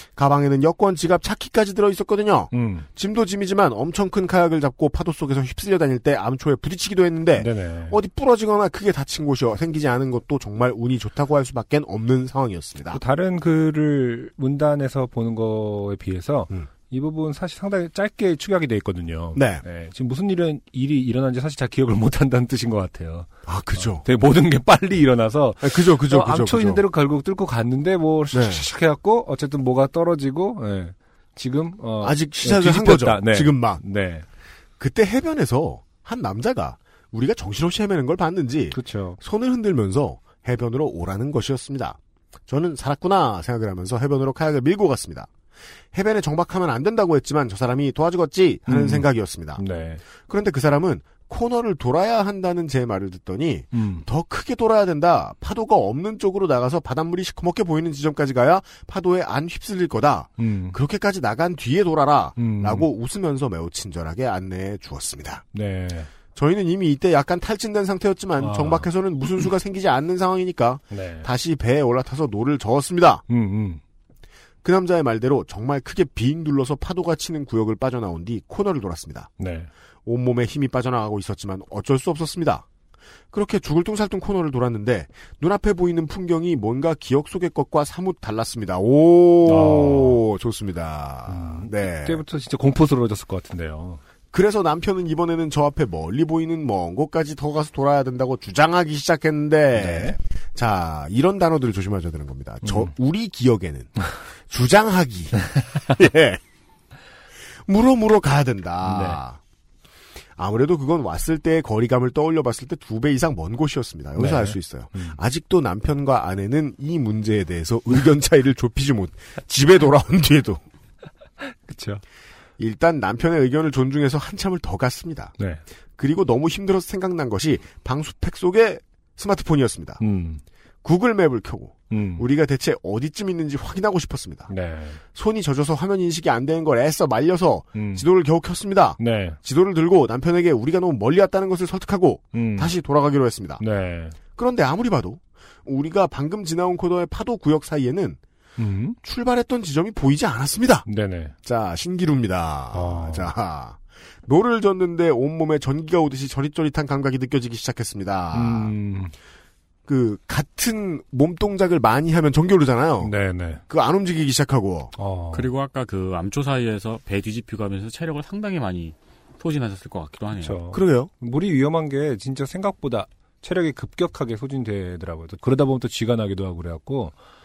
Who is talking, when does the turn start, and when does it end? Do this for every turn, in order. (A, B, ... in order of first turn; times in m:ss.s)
0:00.1-0:13.0 A
0:02.5-0:02.9 B
0:07.4-0:08.0 B
0:12.9-0:34.2 B
0:19.3-0:19.6 A
0:23.4-0:24.0 A
0:25.6-0:26.8 A
0:28.3-0:28.6 A
0:32.0-0:33.8 A
0:34.8-0:45.3 A
0:38.7-0:39.2 B
0:45.9-0:49.6 A
0:48.7-0:50.0 B
0:50.2-1:05.4 A
0:53.7-0:54.0 B
1:00.4-1:00.8 B
1:02.4-1:02.9 B
1:05.5-1:06.1 B
1:06.3-1:13.2 A
1:08.4-1:08.9 B
1:10.9-1:11.3 B
1:13.3-1:13.8 B
1:14.6-1:19.3 A
1:19.4-1:19.7 B
1:20.0-1:22.6 A
1:23.3-1:32.2 A
1:29.4-1:30.2 B
1:31.3-1:34.0 B
1:34.3-1:46.4 A
1:39.8-1:40.1 B
1:42.6-1:42.9 B
1:47.6-1:49.4 A
1:48.8-1:49.2 B
1:50.4-2:00.6 A
1:54.2-1:55.2 B
2:01.4-2:02.0 B
2:02.6-2:05.4 A
2:06.0-2:10.0 A
2:10.0-2:10.4 B
2:10.8-2:14.5 A
2:11.9-2:12.2 B
2:14.5-2:15.0 B
2:15.1-2:23.6 A
2:17.7-2:18.0 B
2:19.0-2:19.4 B
2:22.3-2:22.7 B
2:23.6-2:24.2 B
2:24.3-2:28.2 A
2:28.6-2:29.0 B
2:29.0-2:30.9 A
2:30.9-2:31.3 B
2:31.4-2:38.7 A
2:32.7-2:33.3 B
2:38.3-2:39.1 B
2:39.9-2:43.1 A
2:43.0-2:43.6 B
2:43.7-2:44.9 A
2:45.0-2:45.5 B
2:45.3-2:50.6 C
2:50.4-2:57.1 B
2:50.7-2:51.1 A